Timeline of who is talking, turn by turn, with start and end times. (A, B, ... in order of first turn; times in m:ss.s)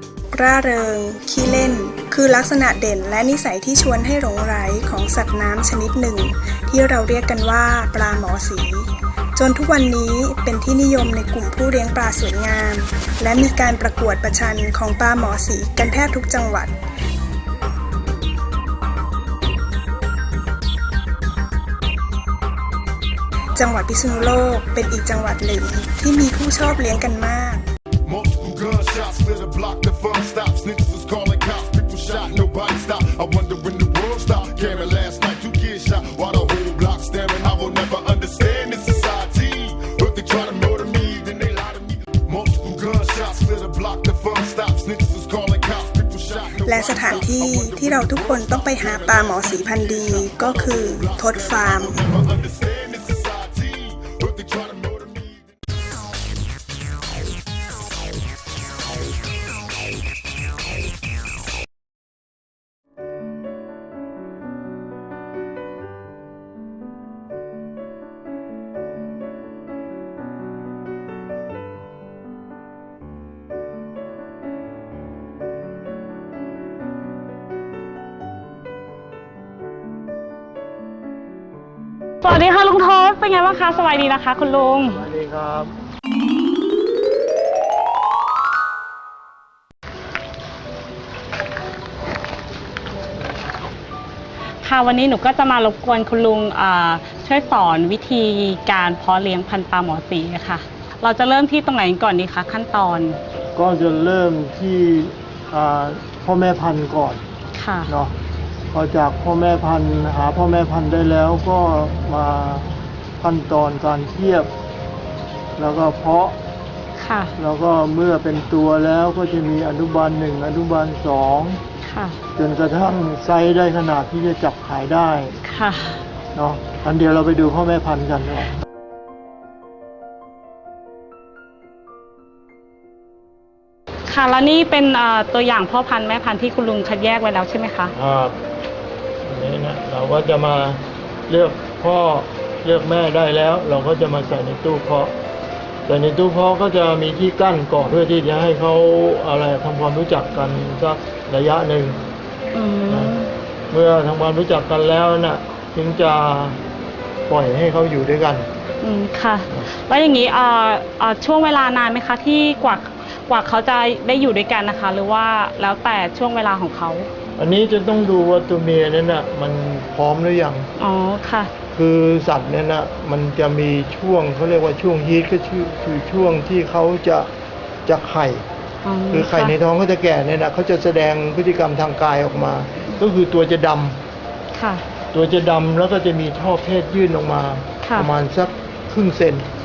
0:00.3-0:16.7 A
0:23.5-0:27.6 A
0:28.1-0:55.5 B
0:46.6-0:52.1 A
1:22.2-1:25.0 C
1:24.9-1:25.7 D
1:34.6-1:43.2 C
1:43.5-1:47.2 D
1:47.5-1:47.9 C
1:47.9-1:48.1 D
1:48.7-1:54.5 D
1:55.6-1:56.3 D
1:57.0-1:57.3 C
1:57.4-2:01.6 D
2:01.8-2:02.2 C
2:02.4-2:05.4 D
2:05.4-2:06.0 C
2:06.3-2:08.5 D
2:14.1-2:17.9 C
2:17.9-2:18.4 D
2:19.2-2:25.1 D
2:25.8-2:32.0 D
2:32.5-2:33.3 C
2:32.9-2:33.1 D
2:33.7-2:36.6 D
2:37.3-2:38.5 D
2:38.8-2:47.1 C
2:47.4-2:50.7 D
2:50.8-2:51.5 C
2:51.7-2:57.3 D
2:57.8-2:58.4 D
2:58.8-2:59.5 C
2:59.1-3:04.0 D
3:04.5-3:04.8 C
3:05.1-3:09.5 D
3:07.8-3:08.1 C